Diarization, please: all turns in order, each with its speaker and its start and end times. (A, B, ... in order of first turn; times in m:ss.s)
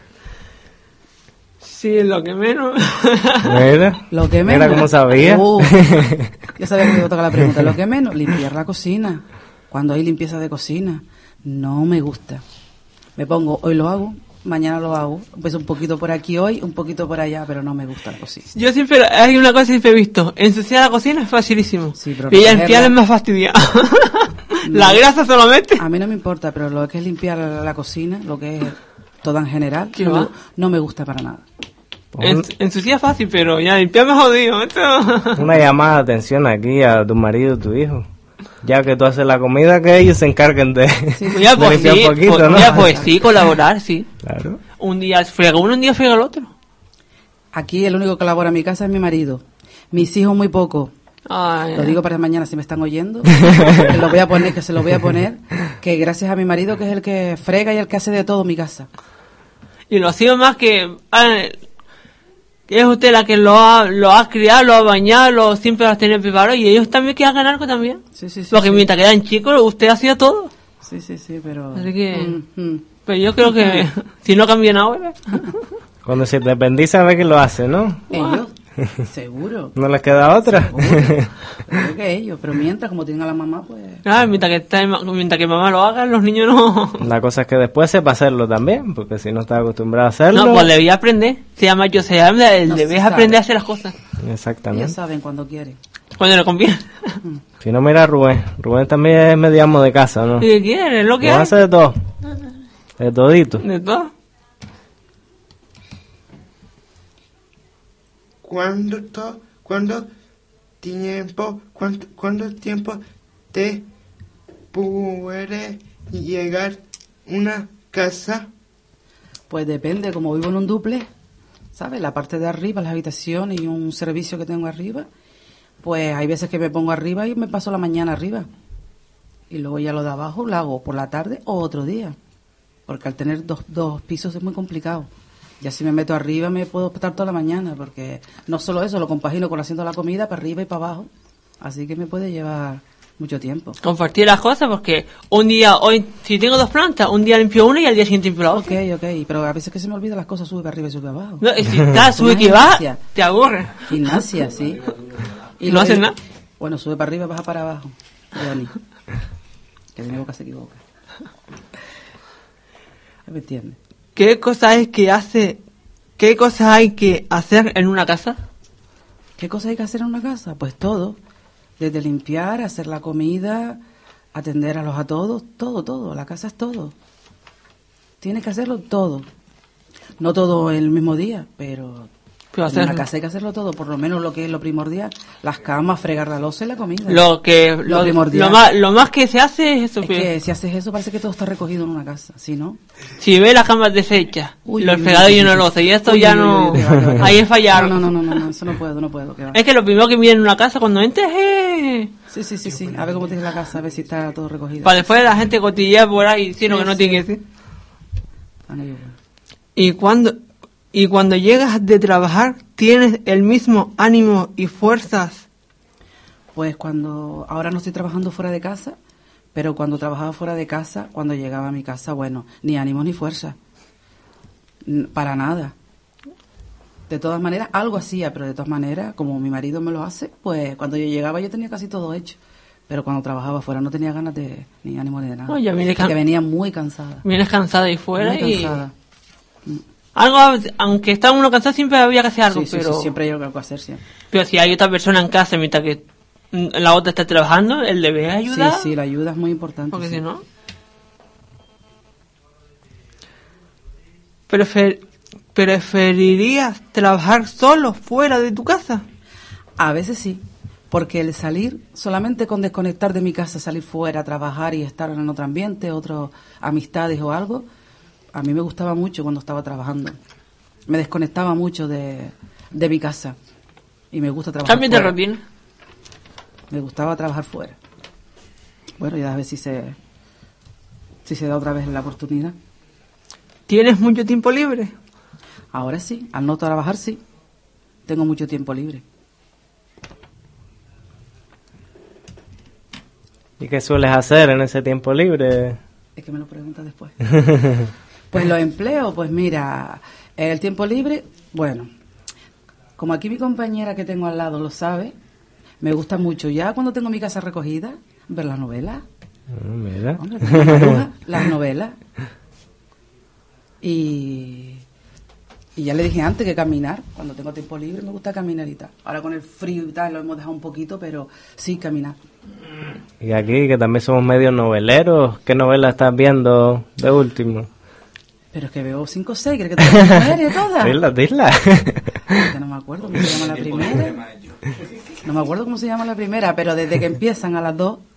0:01.6-0:03.6 A
0:03.4-0:06.3 B
0:04.1-0:12.4 C
0:13.2-0:18.5 C
0:18.6-0:25.8 A
0:22.0-0:23.0 C
0:24.6-0:25.0 C
0:25.8-0:31.4 C
0:30.0-0:30.3 A
0:32.1-0:32.5 B
0:32.2-0:35.4 A
0:35.4-0:38.1 B
0:38.6-0:43.1 B
0:41.1-0:43.2 C
0:41.3-0:44.1 A
0:44.2-0:44.6 B
0:44.8-0:46.5 A
0:47.5-0:50.9 C
0:51.3-0:52.0 A
0:51.7-0:58.9 C
0:59.9-1:01.6 A
1:02.7-1:10.5 A
1:08.2-1:08.9 C
1:10.8-1:12.9 C
1:11.8-1:12.4 A
1:13.1-1:15.6 A
1:13.4-1:13.8 C
1:16.0-1:18.1 B
1:18.1-1:19.8 C
1:18.1-1:18.4 A
1:19.8-1:21.3 B
1:20.4-1:24.0 C
1:24.0-1:27.1 A
1:27.0-1:30.7 B
1:30.3-1:33.9 A
1:32.7-1:33.4 C
1:34.2-1:35.0 B
1:34.7-1:35.8 C
1:36.2-1:37.2 A
1:37.6-1:40.5 B
1:40.4-1:41.5 A
1:41.2-1:42.0 B
1:43.0-1:43.6 B
1:43.6-1:44.1 A
1:48.4-1:50.1 D
1:50.8-1:53.0 D
1:53.5-1:53.9 D
1:54.7-1:58.5 D
1:59.5-2:01.1 C
2:01.8-2:05.1 C
2:05.8-2:08.5 C
2:09.5-2:12.2 C
2:12.9-2:15.1 C
2:15.6-2:21.1 C
2:21.6-2:23.8 C
2:23.8-2:28.7 A
2:28.5-2:33.0 C
2:31.4-2:34.2 A
2:33.8-2:35.0 C
2:35.6-2:38.7 C
2:35.7-2:36.2 A
2:40.0-2:40.8 C
2:43.3-2:43.8 C
2:44.2-2:45.6 A
2:46.2-2:48.4 A
2:49.4-2:51.2 C
2:51.8-2:53.8 C
2:54.3-2:56.9 C
2:58.2-2:59.3 C
3:00.2-3:02.1 C
3:02.5-3:03.0 A
3:02.7-3:07.3 C
3:07.1-3:10.3 A
3:07.9-3:08.6 C
3:10.0-3:12.8 C
3:13.2-3:18.4 A
3:14.6-3:19.6 C
3:16.8-3:17.3 B
3:19.5-3:22.1 A
3:22.3-3:25.1 C
3:24.8-3:27.4 A
3:26.7-3:27.3 C
3:28.7-3:29.2 C
3:29.8-3:30.4 A
3:30.9-3:35.4 A
3:36.6-3:39.0 C
3:39.6-3:43.6 C
3:44.8-3:45.8 C
3:47.1-3:52.4 C
3:52.9-3:57.2 C
3:55.5-3:56.1 A
3:57.2-3:58.8 A
3:58.2-3:58.9 C
4:00.2-4:03.1 A
4:02.5-4:04.0 C
4:04.3-4:06.0 A
4:06.5-4:08.9 A
4:08.5-4:10.2 C
4:09.9-4:10.4 A
4:14.5-4:15.0 A
4:15.5-4:19.0 A
4:19.8-4:27.7 C
4:28.3-4:30.2 C
4:30.9-4:33.4 C
4:34.1-4:35.2 C
4:34.7-4:35.4 A
4:36.7-4:37.8 C
4:39.0-4:40.0 C
4:41.2-4:42.6 C
4:43.7-4:44.9 A
4:45.7-4:47.2 C
4:48.1-4:49.0 C
4:53.6-4:55.8 B
4:56.2-4:57.2 C
4:57.4-4:57.9 B
4:58.3-5:01.9 C
5:03.0-5:05.2 C
5:05.8-5:09.0 C
5:09.5-5:11.0 B
5:10.2-5:12.0 C
5:13.8-5:14.8 C
5:15.8-5:22.2 C
5:23.2-5:27.7 B
5:28.5-5:31.0 C
5:29.8-5:32.5 B
5:32.3-5:34.3 C
5:35.2-5:38.0 C